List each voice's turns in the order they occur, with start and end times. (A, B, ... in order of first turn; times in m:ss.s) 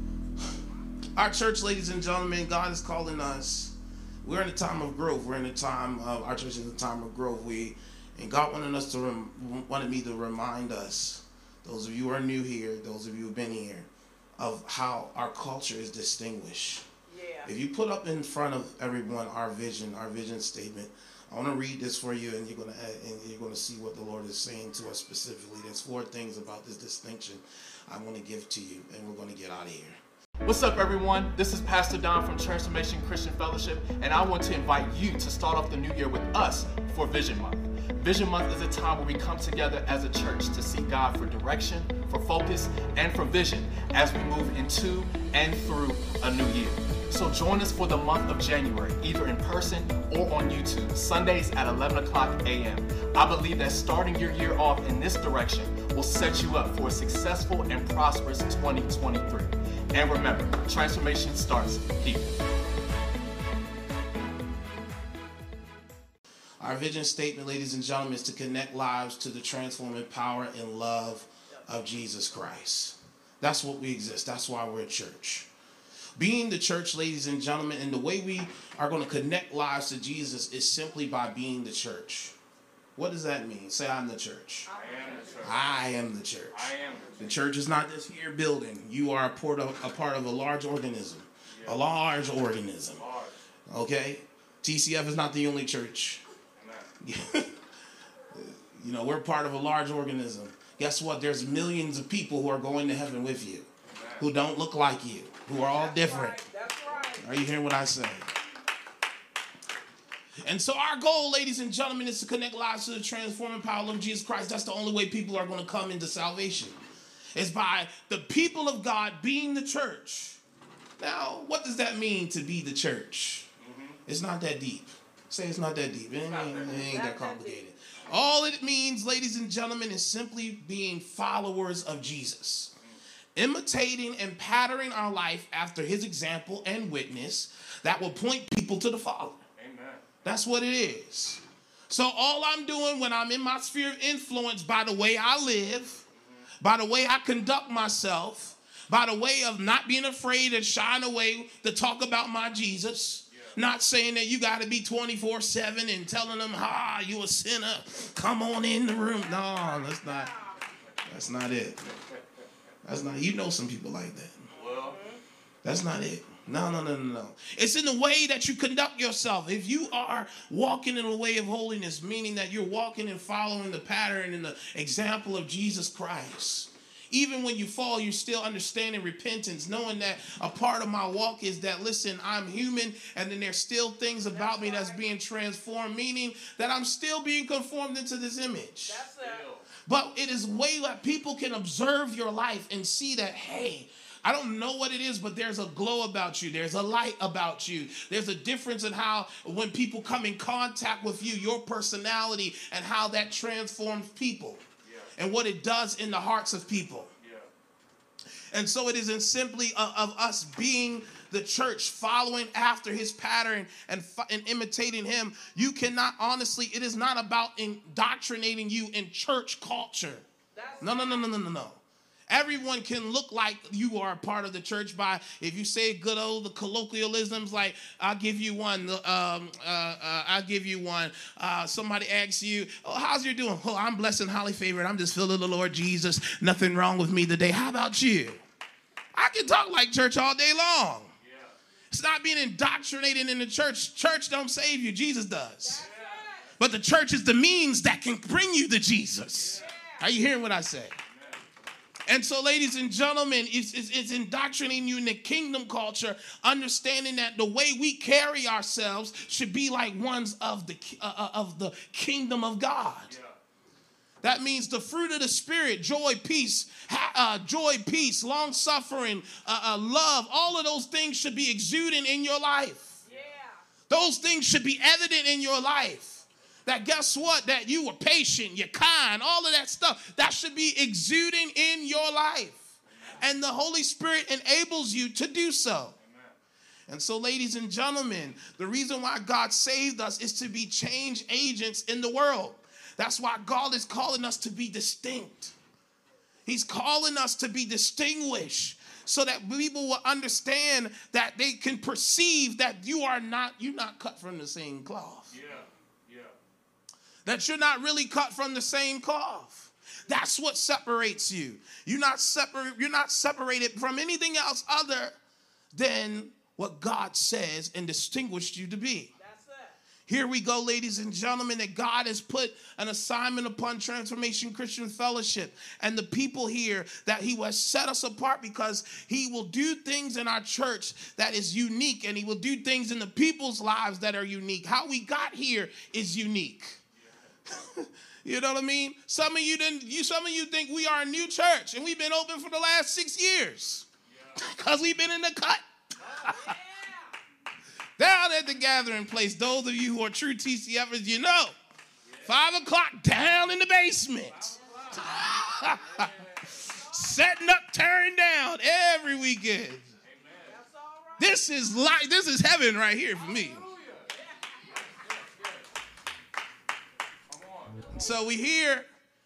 0:01.2-0:16.9 A
0:17.1-0:17.5 B
0:17.4-0:30.0 A
0:30.4-1:02.3 C
1:06.6-1:15.5 A
1:16.2-1:22.4 A
1:23.0-1:24.7 A
1:24.8-1:25.6 D
1:25.4-1:33.0 A
1:26.5-1:27.4 D
1:31.5-1:31.8 D
1:33.0-1:33.3 D
1:33.7-1:36.2 A
1:36.6-1:36.9 D
1:37.0-1:37.6 A
1:38.3-1:43.7 A
1:43.9-1:44.3 D
1:44.2-1:46.4 A
1:45.6-1:47.4 B
1:47.2-1:48.3 A
1:50.4-1:56.8 A
1:57.3-2:00.4 A
2:01.0-2:03.5 A
2:03.6-2:04.0 D
2:04.1-2:12.8 A
2:06.3-2:06.7 D
2:06.6-2:07.6 B
2:13.4-2:19.4 A
2:19.6-2:20.1 D
2:20.2-2:26.0 A
2:26.6-2:40.3 A
2:33.3-2:33.6 D
2:39.2-2:40.6 B
2:41.1-2:41.8 A
2:42.8-2:44.5 A
2:44.5-2:45.0 D
2:44.9-2:45.2 B
2:45.6-3:09.1 A
3:04.3-3:05.0 B
3:08.9-3:09.5 B
3:09.2-3:09.7 D
3:09.9-3:24.6 A
3:24.8-3:25.1 D
3:25.2-3:27.1 A
3:27.2-3:27.5 D
3:28.5-3:40.2 A
3:40.5-3:41.3 B
3:40.8-3:58.4 A
3:59.1-4:01.1 A
4:01.2-4:01.6 D
4:01.9-4:05.8 A
4:05.6-4:06.5 B
4:05.8-4:06.5 D
4:06.6-4:11.0 A
4:09.4-4:09.7 D
4:09.6-4:10.0 B
4:11.1-4:11.4 D
4:12.1-4:23.2 A
4:23.1-4:23.4 D
4:24.2-4:33.0 A
4:33.0-4:33.6 B
4:33.1-4:33.3 D
4:33.9-4:42.6 A
4:43.2-4:46.0 A
4:46.0-4:46.4 D
4:46.9-4:55.6 A
4:56.5-5:05.4 A
5:05.3-5:06.4 D
5:07.3-5:15.2 A
5:15.7-5:19.1 A
5:19.2-5:19.8 B
5:20.1-5:36.8 A
5:37.5-5:46.5 A
5:44.1-5:44.4 D
5:46.1-5:47.2 B
5:48.0-5:51.6 A
5:52.0-5:52.4 D
5:52.2-5:59.9 A
5:54.3-5:55.2 D
5:55.8-5:56.6 D
5:56.6-5:57.3 B
6:00.0-6:00.6 D
6:00.5-6:01.3 B
6:01.2-6:03.6 A
6:03.3-6:04.1 D
6:04.1-6:04.6 B
6:04.7-6:05.7 D
6:07.3-6:08.0 D
6:07.9-6:08.9 A